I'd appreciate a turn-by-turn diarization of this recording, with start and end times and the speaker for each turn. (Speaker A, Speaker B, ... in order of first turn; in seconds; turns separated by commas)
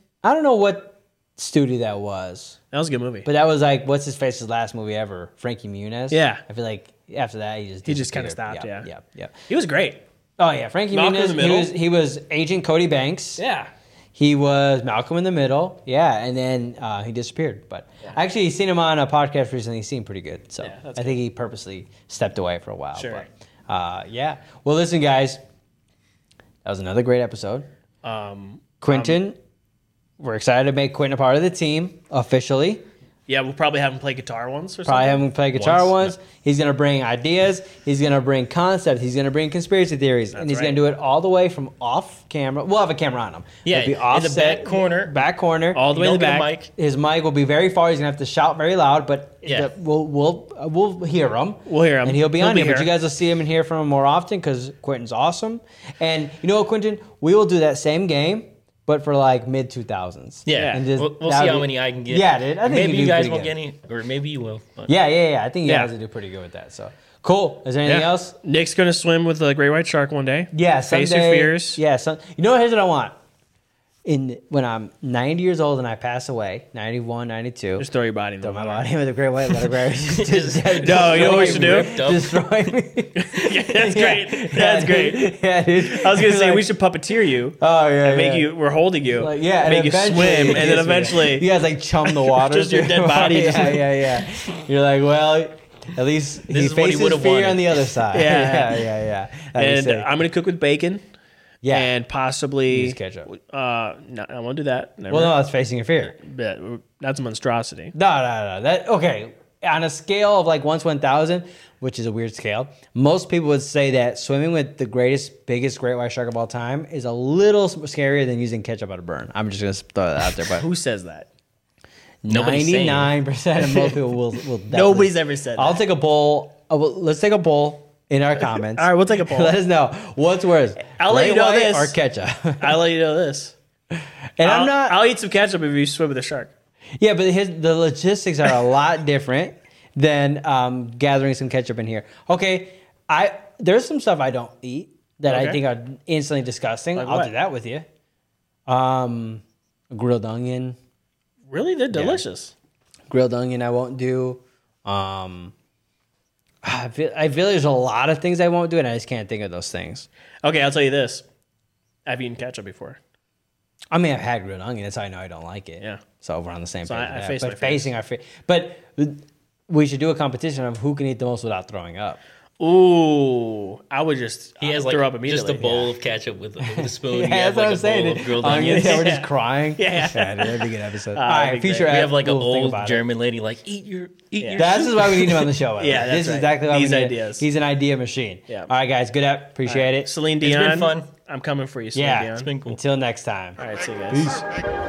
Speaker A: 0.2-2.6, Speaker B: 2.7-3.3, Speaker A: 3.2-9.3, Speaker B: 6.1-6.4, Speaker B: 7.8-8.9, Speaker B: 9.5-10.0, Speaker A: 10.4-13.4, Speaker B: 10.9-11.7, Speaker B: 13.4-13.7, Speaker A: 14.1-25.4, Speaker B: 20.6-21.2, Speaker B: 22.9-23.2, Speaker A: 26.6-27.6, Speaker B: 28.0-29.2, Speaker A: 28.8-29.4, Speaker A: 30.2-32.8, Speaker B: 33.3-35.2, Speaker A: 34.9-45.9, Speaker C: 35.5-36.1, Speaker B: 40.3-40.8, Speaker C: 43.6-45.1, Speaker B: 45.7-46.5, Speaker C: 45.9-46.7, Speaker A: 46.7-63.5, Speaker C: 49.4-49.7, Speaker B: 51.7-52.9, Speaker C: 60.5-64.9, Speaker B: 60.5-60.9, Speaker A: 64.9-68.3, Speaker B: 65.7-65.9, Speaker B: 67.9-71.8, Speaker A: 70.5-73.2, Speaker A: 74.0-77.9, Speaker B: 77.8-78.8, Speaker A: 78.4-86.7, Speaker C: 80.0-82.7, Speaker B: 80.8-82.0, Speaker B: 83.2-85.3, Speaker B: 85.8-91.5, Speaker A: 87.6-88.5, Speaker A: 89.2-100.1, Speaker B: 92.0-94.0, Speaker C: 96.5-97.8, Speaker B: 98.1-98.9, Speaker B: 99.5-101.0, Speaker A: 101.6-101.9, Speaker B: 101.7-105.3, Speaker A: 102.7-103.3, Speaker A: 105.1-106.2, Speaker B: 106.1-107.9, Speaker A: 107.9-120.7, Speaker B: 120.4-121.3, Speaker A: 122.2-132.8, Speaker C: 122.3-123.1, Speaker B: 123.7-123.9, Speaker B: 124.7-125.8, Speaker B: 128.4-129.6, Speaker B: 130.9-131.9, Speaker B: 132.6-133.5, Speaker A: 134.4-135.0, Speaker B: 134.4-136.5, Speaker A: 137.0-147.8, Speaker B: 145.3-145.6, Speaker B: 147.0-147.3, Speaker A: 148.7-150.8, Speaker B: 151.5-152.5, Speaker A: 151.9-152.2, Speaker A: 153.1-155.5, Speaker A: 156.6-160.1, Speaker B: 160.4-161.2, Speaker B: 162.1-163.0, Speaker A: 163.9-172.2, Speaker B: 166.9-167.9, Speaker B: 172.6-175.9, Speaker C: 174.6-179.1, Speaker A: 176.6-183.1, Speaker B: 178.7-181.9, Speaker C: 181.8-185.5, Speaker B: 184.4-184.7, Speaker A: 184.6-190.1, Speaker B: 185.8-187.4, Speaker B: 189.6-192.5, Speaker C: 190.4-191.1, Speaker A: 191.9-194.4, Speaker C: 192.3-192.8, Speaker B: 193.6-194.4